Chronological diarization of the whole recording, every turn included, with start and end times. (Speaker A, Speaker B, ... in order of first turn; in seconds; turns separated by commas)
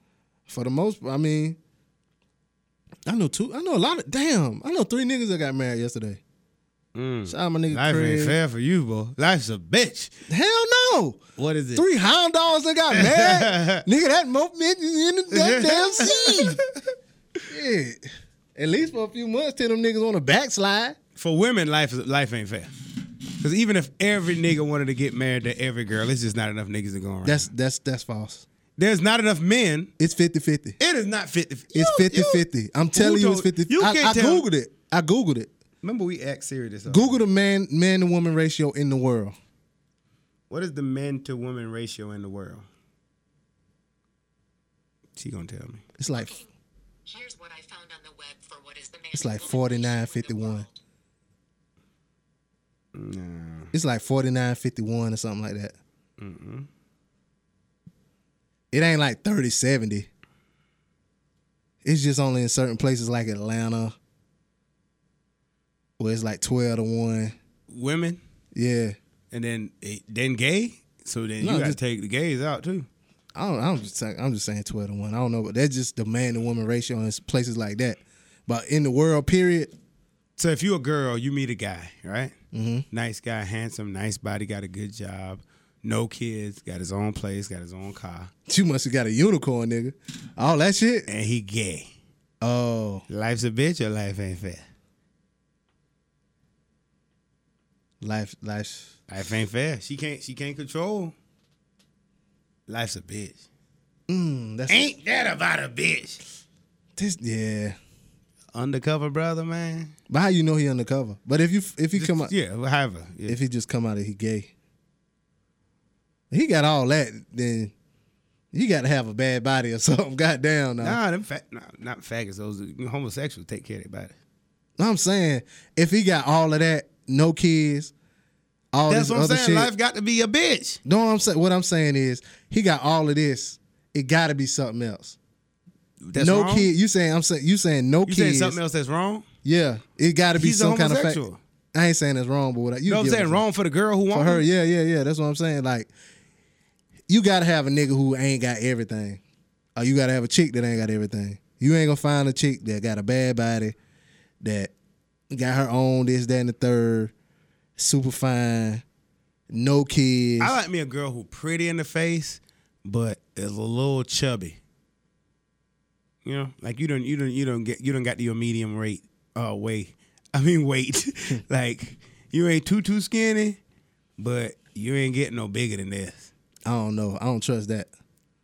Speaker A: 0.5-1.6, Speaker A: 3.0-6.2, Speaker B: 6.9-10.1, Speaker A: 7.3-8.4, Speaker A: 10.3-11.2, Speaker B: 11.4-11.8, Speaker A: 11.7-16.6, Speaker B: 12.9-13.8, Speaker B: 15.3-16.7, Speaker A: 17.5-21.0, Speaker B: 21.2-22.7, Speaker B: 23.4-27.5, Speaker A: 27.2-28.4, Speaker B: 28.8-29.9, Speaker A: 30.0-30.8, Speaker B: 30.8-34.4, Speaker A: 31.7-35.5, Speaker B: 35.8-37.2, Speaker A: 36.9-39.3, Speaker B: 40.5-42.6, Speaker B: 45.2-45.8, Speaker A: 46.0-46.4, Speaker C: 47.0-50.7, Speaker A: 49.1-50.6, Speaker B: 52.9-53.7, Speaker A: 53.7-55.7, Speaker B: 56.2-56.7, Speaker A: 58.7-60.1, Speaker A: 61.8-63.9, Speaker A: 66.0-67.3, Speaker B: 67.7-68.2, Speaker A: 68.5-69.0, Speaker B: 69.3-72.9, Speaker A: 71.4-71.8, Speaker A: 73.3-79.7, Speaker B: 80.4-82.3, Speaker A: 82.5-82.8, Speaker B: 82.9-88.3, Speaker A: 88.5-91.1, Speaker B: 91.1-91.9, Speaker A: 92.4-93.0, Speaker B: 93.1-94.6, Speaker A: 98.0-98.9, Speaker B: 99.1-101.1, Speaker B: 102.7-103.4, Speaker A: 104.1-104.9, Speaker B: 104.7-106.2, Speaker A: 107.0-107.8, Speaker B: 108.5-109.9, Speaker A: 110.1-112.3, Speaker B: 111.9-113.4, Speaker A: 113.3-114.5, Speaker A: 116.3-117.7, Speaker A: 118.5-121.0, Speaker B: 120.8-124.1, Speaker A: 124.8-127.9, Speaker A: 128.7-129.7, Speaker B: 128.9-130.8, Speaker A: 130.8-135.2, Speaker B: 136.0-136.7, Speaker A: 136.2-138.6, Speaker B: 138.1-139.2, Speaker A: 139.4-141.2, Speaker B: 140.3-141.4, Speaker A: 141.7-143.4, Speaker B: 142.9-144.4, Speaker A: 144.1-145.9, Speaker A: 147.1-149.2, Speaker A: 149.8-153.8, Speaker A: 154.4-154.7, Speaker A: 155.3-157.1, Speaker A: 157.8-158.8, Speaker A: 159.5-160.5, Speaker B: 160.4-164.6, Speaker B: 166.2-173.6, Speaker B: 174.2-176.3, Speaker A: 176.7-177.9